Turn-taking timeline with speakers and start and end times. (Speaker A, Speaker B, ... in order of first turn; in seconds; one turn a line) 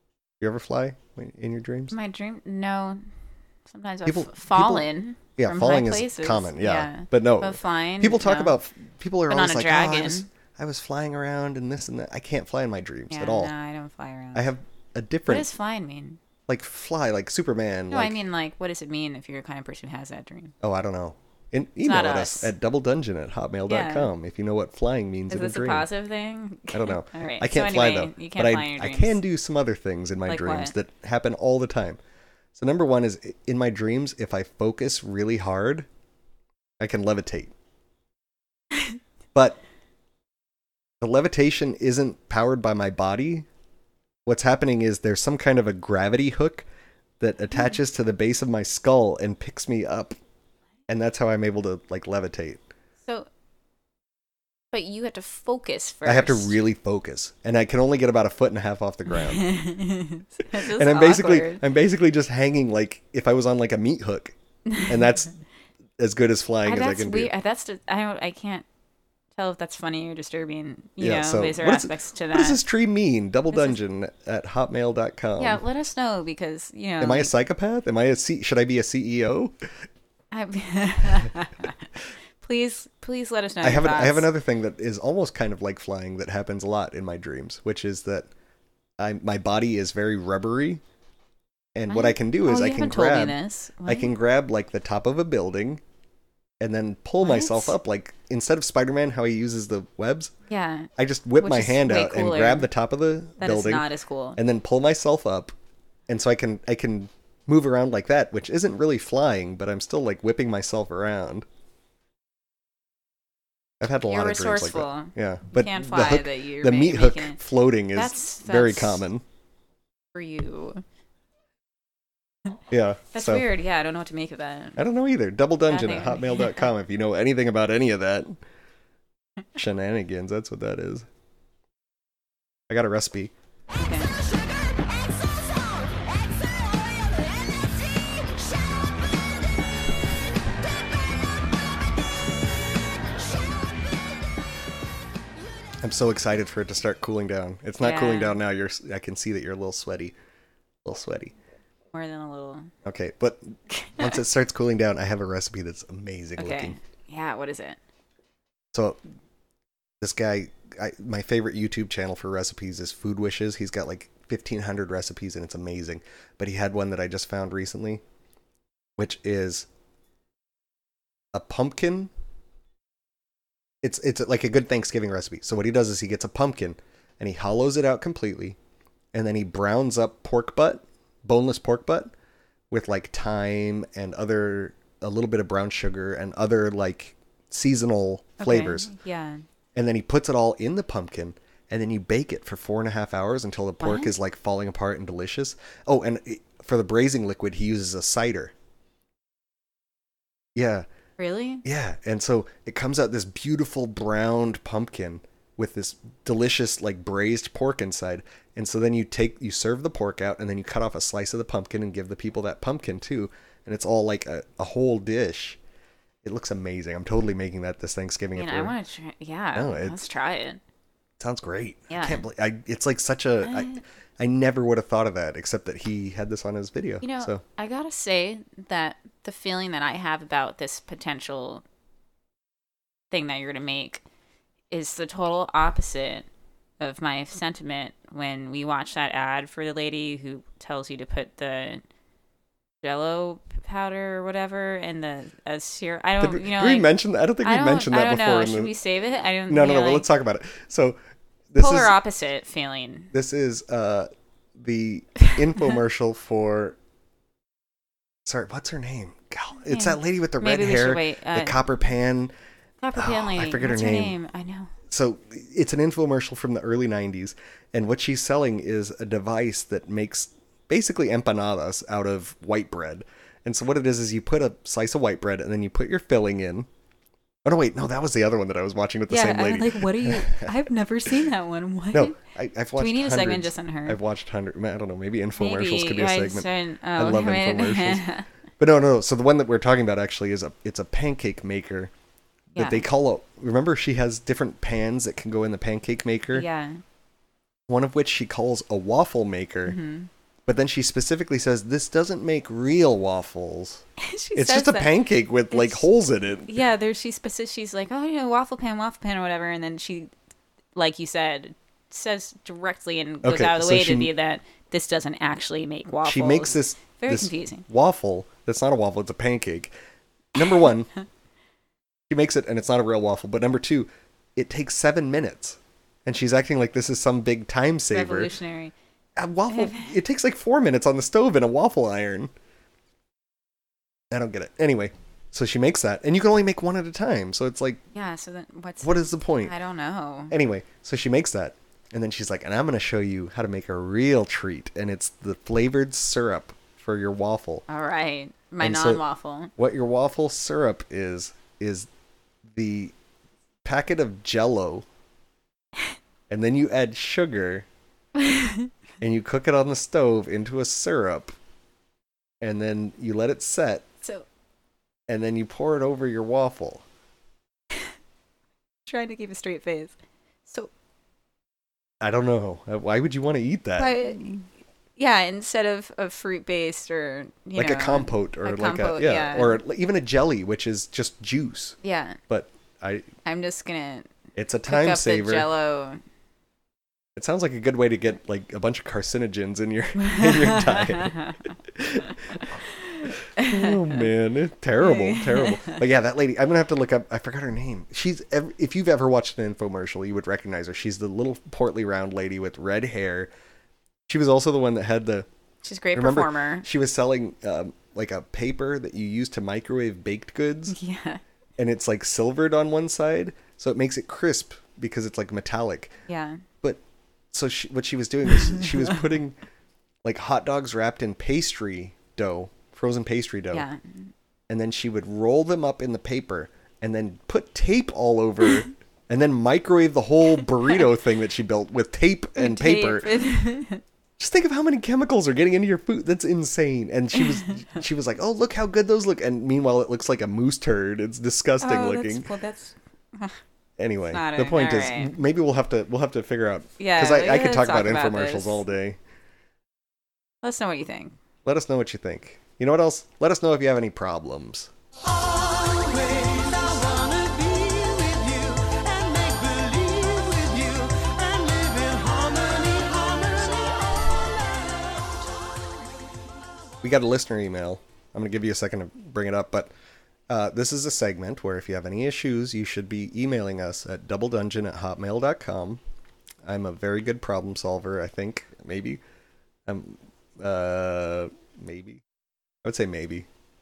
Speaker A: 0.4-2.0
Speaker B: 1.9-3.1
Speaker B: 3.7-8.6
Speaker A: 4.1-13.5
Speaker B: 9.3-10.3
Speaker B: 13.1-14.4
Speaker A: 14.3-15.5
Speaker B: 15.3-16.2
Speaker A: 16.5-18.2
Speaker B: 17.9-20.5
Speaker A: 20.6-25.9
Speaker B: 21.8-22.5
Speaker B: 23.7-24.1
Speaker B: 25.3-29.2
Speaker A: 26.7-32.0
Speaker B: 30.3-30.7
Speaker A: 32.5-35.9
Speaker A: 36.8-37.5
Speaker A: 39.4-39.6
Speaker A: 41.0-43.5
Speaker A: 44.3-46.6
Speaker A: 47.2-50.1
Speaker A: 50.9-52.6
Speaker B: 54.7-56.6
Speaker A: 56.0-59.5
Speaker B: 59.1-61.6
Speaker A: 60.5-65.3
Speaker B: 64.7-65.1
Speaker A: 66.0-67.3
Speaker B: 66.7-68.7
Speaker B: 69.3-72.6
Speaker A: 71.0-75.6
Speaker B: 73.5-73.8
Speaker B: 75.4-77.3
Speaker A: 77.0-79.5
Speaker B: 80.3-81.9
Speaker B: 82.4-84.3
Speaker A: 83.6-88.3
Speaker A: 89.0-90.8
Speaker A: 91.8-95.8
Speaker B: 91.9-94.1
Speaker A: 96.6-100.3
Speaker B: 97.2-97.8
Speaker B: 100.5-102.7
Speaker A: 101.0-103.9
Speaker B: 103.4-104.4
Speaker A: 104.4-105.5
Speaker A: 106.1-111.5
Speaker A: 113.8-119.2
Speaker B: 114.1-117.4
Speaker B: 117.9-119.0
Speaker B: 120.1-120.8
Speaker A: 122.7-123.5
Speaker B: 123.1-124.8
Speaker A: 124.8-128.4
Speaker B: 125.7-126.7
Speaker A: 129.6-131.1
Speaker A: 132.7-133.3
Speaker B: 133.8-134.2
Speaker A: 145.8-150.2
Speaker B: 147.8-148.4
Speaker A: 150.8-151.3
Speaker B: 151.9-152.7
Speaker A: 152.8-156.8
Speaker B: 153.7-154.2
Speaker B: 156.4-157.8
Speaker A: 158.7-159.0
Speaker A: 160.0-168.0
Speaker A: 169.0-169.7
Speaker A: 171.3-172.1
Speaker A: 173.8-178.6
Speaker A: 179.1-182.1
Speaker A: 182.7-188.9
Speaker B: 188.4-189.4
Speaker A: 189.8-198.5
Speaker B: 193.8-194.1
Speaker A: 200.6-200.9
Speaker B: 201.2-201.6
Speaker A: 201.6-215.6
Speaker A: 216.2-218.8
Speaker B: 218.4-220.6
Speaker A: 219.6-220.0
Speaker A: 221.2-227.4
Speaker B: 221.9-222.2
Speaker B: 223.4-223.8
Speaker B: 227.0-231.6
Speaker B: 233.1-234.0
Speaker B: 234.7-236.3
Speaker B: 236.8-241.8
Speaker B: 242.8-246.9
Speaker A: 246.2-248.7
Speaker B: 247.4-250.1
Speaker A: 249.5-251.0
Speaker A: 251.5-251.9
Speaker B: 251.6-253.1
Speaker A: 253.1-256.8
Speaker A: 258.3-262.3
Speaker B: 259.7-261.6
Speaker B: 262.8-264.7
Speaker A: 262.9-264.2
Speaker A: 264.9-276.7
Speaker A: 277.4-280.5
Speaker B: 279.1-282.2
Speaker A: 281.9-288.0
Speaker B: 282.8-284.0
Speaker B: 285.4-288.3
Speaker A: 288.6-291.9
Speaker A: 292.5-296.5
Speaker B: 292.6-292.9
Speaker B: 296.3-296.8
Speaker A: 297.7-299.8
Speaker B: 299.7-300.1
Speaker A: 300.5-303.8
Speaker B: 304.0-304.9
Speaker A: 304.4-306.6
Speaker B: 305.5-305.9
Speaker B: 306.5-310.1
Speaker B: 310.8-317.6
Speaker A: 313.2-314.1
Speaker A: 316.0-319.7
Speaker A: 320.4-320.9
Speaker A: 322.1-328.3
Speaker B: 327.9-328.7
Speaker A: 329.2-332.3
Speaker B: 329.5-329.9
Speaker A: 334.1-337.8
Speaker B: 337.9-340.3
Speaker A: 338.8-339.5
Speaker A: 340.3-347.6
Speaker B: 347.7-349.5
Speaker A: 348.6-349.0
Speaker A: 349.6-351.9
Speaker A: 352.5-352.9
Speaker A: 353.6-354.9
Speaker A: 356.3-357.7
Speaker B: 358.2-358.7
Speaker A: 359.0-361.3
Speaker A: 362.4-363.9
Speaker A: 365.1-366.8
Speaker B: 368.9-369.9
Speaker A: 372.0-374.2
Speaker B: 373.8-374.4
Speaker B: 375.0-379.6
Speaker A: 377.6-381.8
Speaker B: 381.8-382.2
Speaker A: 382.3-383.1
Speaker B: 383.2-384.1
Speaker A: 384.4-385.5
Speaker B: 384.7-386.0
Speaker A: 387.2-392.5
Speaker B: 390.0-391.4
Speaker B: 392.4-394.1
Speaker A: 393.1-403.3
Speaker B: 394.8-395.8
Speaker A: 404.1-405.3
Speaker B: 405.6-406.7
Speaker A: 405.9-410.8
Speaker B: 410.7-411.2
Speaker A: 411.6-416.0
Speaker B: 416.1-416.4
Speaker A: 417.3-419.4
Speaker A: 420.1-423.7
Speaker B: 423.5-424.1
Speaker A: 424.5-433.2
Speaker B: 432.4-433.8
Speaker A: 434.2-442.3
Speaker B: 441.6-443.4
Speaker A: 443.8-449.0
Speaker B: 444.1-445.1
Speaker B: 446.8-448.6
Speaker B: 450.4-451.2
Speaker A: 451.4-454.7
Speaker C: 455.0-465.3
Speaker A: 466.8-469.7
Speaker A: 470.3-475.8
Speaker A: 476.4-479.0
Speaker A: 479.7-482.0
Speaker A: 482.6-483.3